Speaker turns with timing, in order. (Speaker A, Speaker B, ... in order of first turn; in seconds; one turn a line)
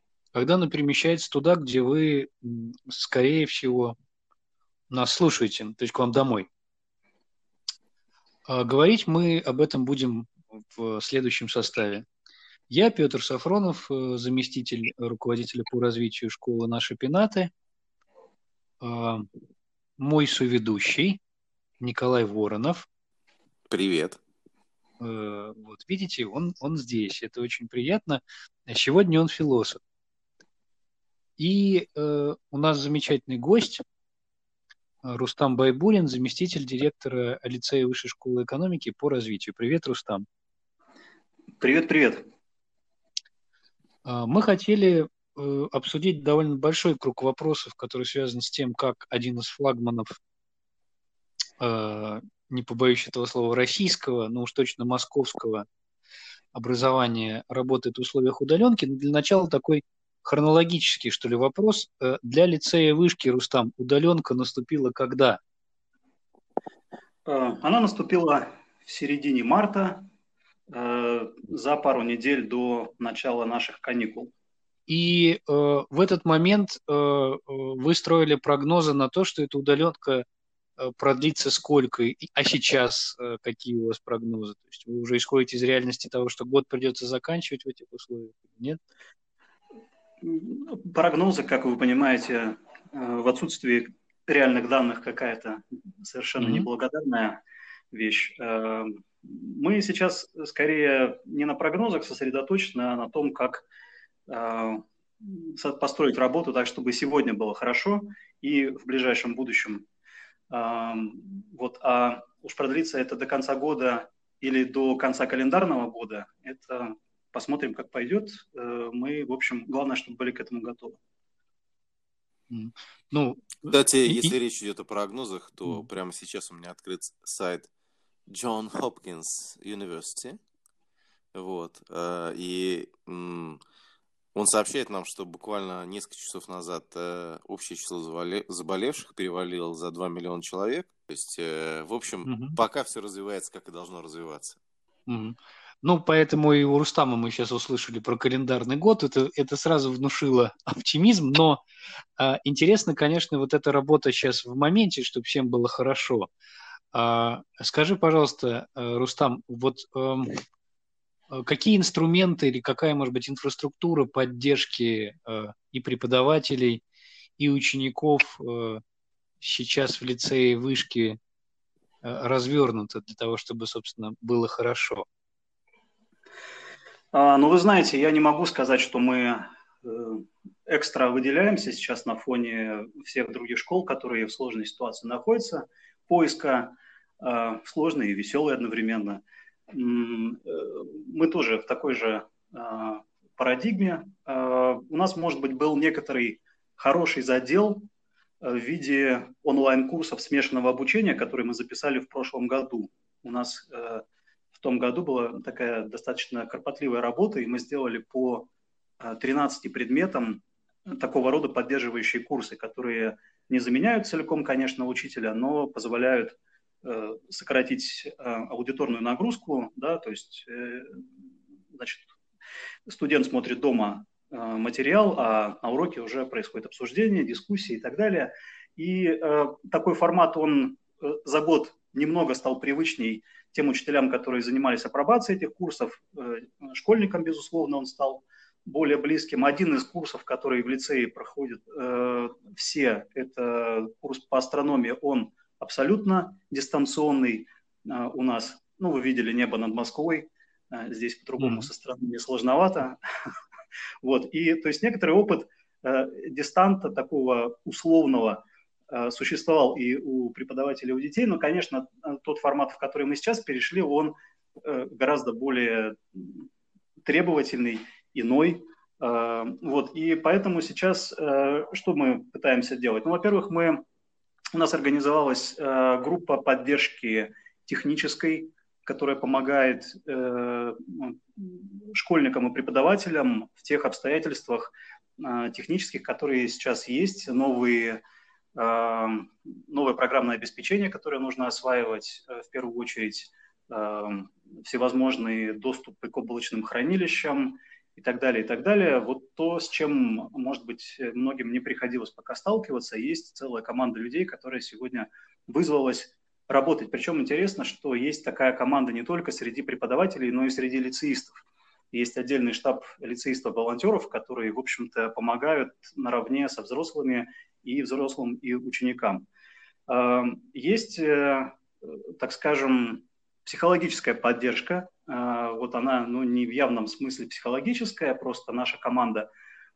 Speaker A: 0.3-4.0
Speaker A: 4.9-6.5
Speaker A: 8.5-12.1
Speaker A: 12.7-17.5
Speaker A: 18.8-19.3
Speaker A: 20.0-21.2
Speaker A: 21.8-22.9
Speaker B: 23.7-24.2
Speaker A: 25.0-29.8
Speaker A: 31.4-33.8
Speaker A: 35.0-40.2
Speaker C: 41.6-42.2
Speaker A: 44.0-50.1
Speaker A: 51.6-55.6
Speaker A: 56.5-65.4
Speaker C: 67.2-70.1
Speaker C: 70.7-74.3
Speaker A: 74.9-80.2
Speaker A: 80.8-88.8
Speaker C: 90.2-97.4
Speaker A: 96.4-96.7
Speaker C: 97.9-103.7
Speaker C: 104.3-109.8
Speaker C: 110.5-121.0
Speaker A: 122.5-124.3
Speaker B: 123.6-127.7
Speaker B: 128.3-130.4
Speaker B: 131.3-133.6
Speaker B: 134.3-144.6
Speaker A: 142.2-142.6
Speaker A: 145.1-151.6
Speaker A: 152.2-156.3
Speaker A: 156.9-160.4
Speaker A: 161.3-166.8
Speaker A: 167.4-168.8
Speaker A: 169.4-171.2
Speaker A: 172.0-175.1
Speaker C: 177.1-197.9
Speaker C: 198.4-204.0
Speaker C: 204.5-208.5
Speaker C: 209.0-221.0
Speaker C: 221.7-222.1
Speaker C: 222.8-253.0
Speaker A: 251.4-251.7
Speaker C: 254.0-266.5
Speaker C: 267.0-273.8
Speaker C: 274.5-288.0
Speaker C: 288.5-311.4
Speaker C: 311.9-319.2
Speaker C: 319.9-329.3